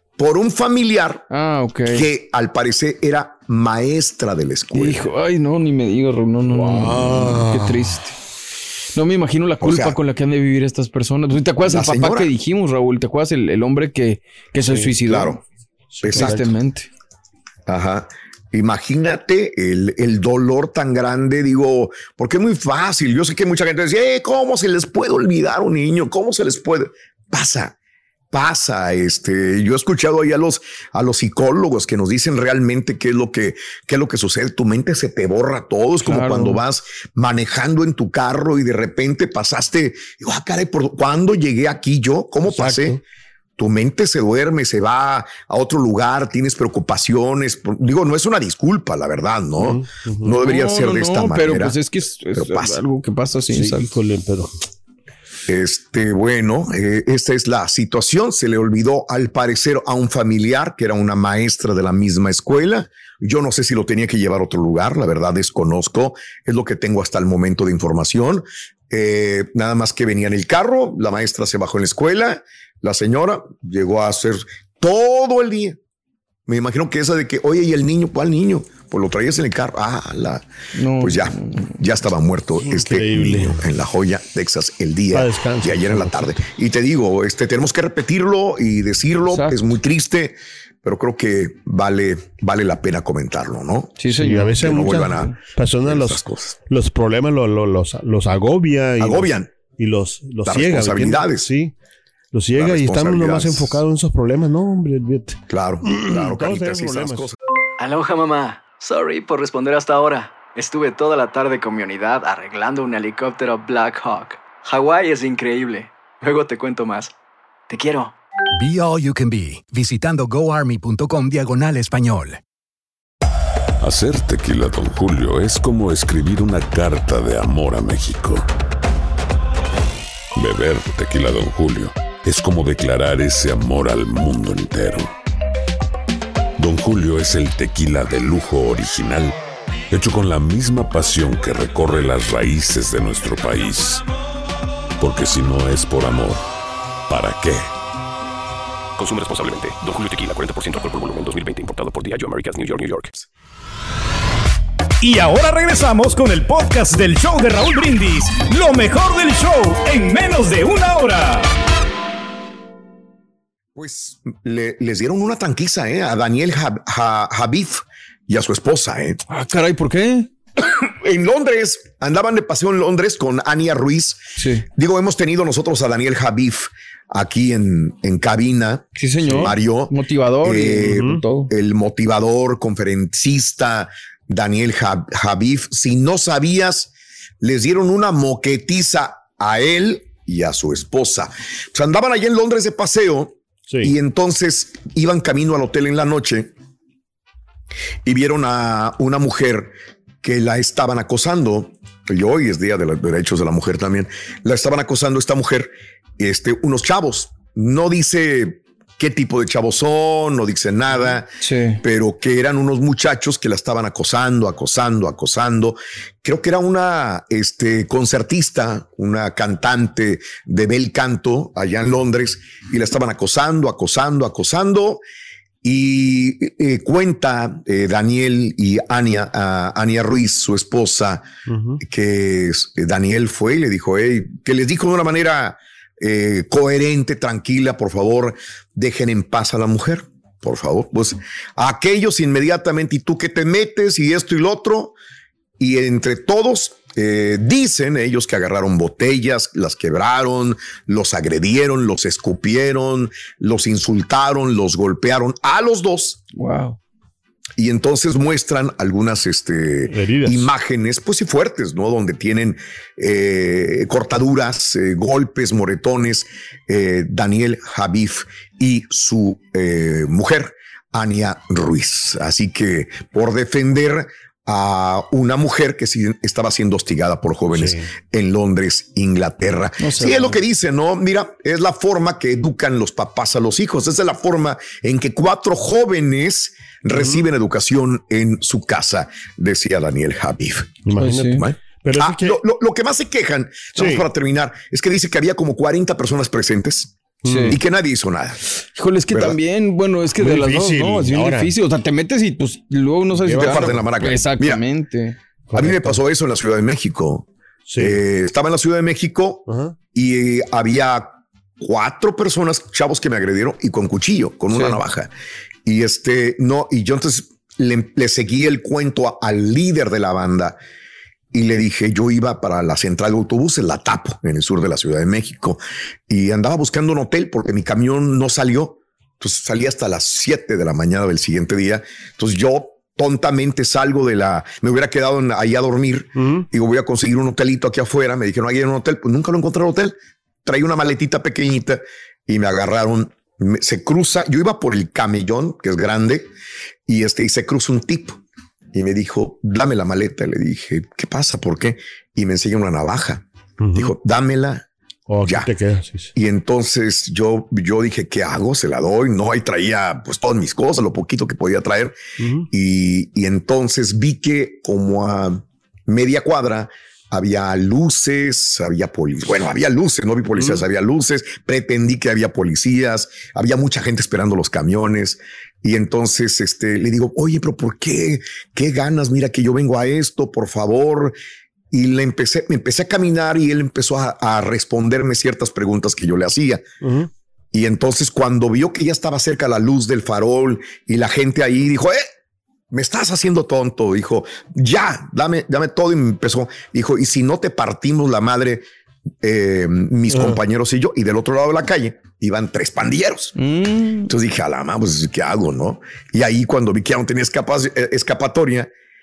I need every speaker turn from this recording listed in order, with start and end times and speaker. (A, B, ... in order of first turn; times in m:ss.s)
0:00.2-0:01.2 A
0:01.3-0:02.0 B
0:01.9-0:05.0 A
0:04.7-0:08.1 B
0:06.5-0:08.0 C
0:08.9-0:15.4 B
0:09.6-0:10.0 A
0:11.6-0:12.3 A
0:14.6-0:15.0 C
0:15.0-0:15.4 A
0:15.9-0:16.4 C
0:16.0-0:16.5 A
0:16.0-0:16.9 B
0:17.7-0:27.7 A
0:28.3-0:43.0 A
0:36.0-0:36.6 B
0:42.5-0:43.0 C
0:43.6-0:51.8 A
0:49.6-0:50.3 C
0:50.3-0:53.9 B
0:52.3-0:52.8 A
0:53.5-0:54.5 C
0:55.5-1:15.8 A
1:16.5-1:20.4 A
1:20.7-1:21.7 B
1:21.0-1:34.0 A
1:22.6-1:23.6 C
1:25.1-1:26.3 C
1:29.3-1:29.6 B
1:34.0-1:35.3 B
1:34.1-1:41.7 C
1:34.6-1:36.6 A
1:39.0-1:39.5 A
1:40.4-1:41.5 A
1:42.3-1:47.3 C
1:42.6-1:43.8 A
1:45.5-1:47.4 A
1:47.8-1:57.1 D
1:57.7-1:58.1 D
1:58.6-2:02.4 E
2:03.8-2:08.5 F
2:10.3-2:15.1 F
2:16.6-2:19.4 F
2:19.9-2:24.0 F
2:25.0-2:26.4 F
2:27.1-2:27.7 F
2:29.0-2:33.2 G
2:35.0-2:41.5 H
2:43.7-2:49.2 A
2:49.3-2:50.3 B
2:50.6-2:54.2 A
2:54.4-2:54.6 B
2:54.7-3:16.5 A
2:59.0-3:01.5 B
3:00.9-3:01.2 C
3:18.0-3:45.0 A
3:31.4-3:31.8 B
3:45.6-3:51.2 A
3:51.5-3:51.8 C
3:51.8-4:04.9 A
4:05.6-4:16.2 A
4:16.3-4:16.8 B
4:17.6-4:50.8 A
4:19.9-4:20.5 C
4:37.5-4:37.9 C
4:39.8-4:40.2 B
4:46.9-4:47.2 C
4:50.8-4:52.4 C
4:51.0-4:51.4 B
4:51.3-4:56.9 A
4:53.7-4:54.1 C
4:57.2-4:57.5 C
4:57.2-4:57.6 B
4:57.4-4:58.4 A
4:58.6-5:05.2 B
4:59.1-4:59.4 A
5:00.2-5:01.5 C
5:03.2-5:03.9 C
5:03.3-5:04.6 A
5:05.5-5:05.8 C
5:05.5-5:07.3 A
5:07.7-5:08.0 C
5:07.8-5:11.1 A
5:09.5-5:09.8 C
5:11.6-5:15.1 A
5:14.5-5:14.8 B
5:15.6-5:20.6 A
5:21.3-5:46.3 A
5:46.9-5:48.2 A
5:48.7-5:54.7 A
5:53.6-5:53.9 C
5:55.1-5:56.1 C
5:55.2-5:55.5 A
5:56.1-6:02.0 A
6:02.2-6:02.5 C
6:02.5-6:21.2 A
6:21.7-6:26.6 A
6:26.8-6:27.1 C
6:27.5-6:32.0 A
6:32.7-6:38.6 A
6:39.2-6:43.4 A
6:40.1-6:40.4 C
6:43.4-6:44.1 B
6:44.0-6:48.7 A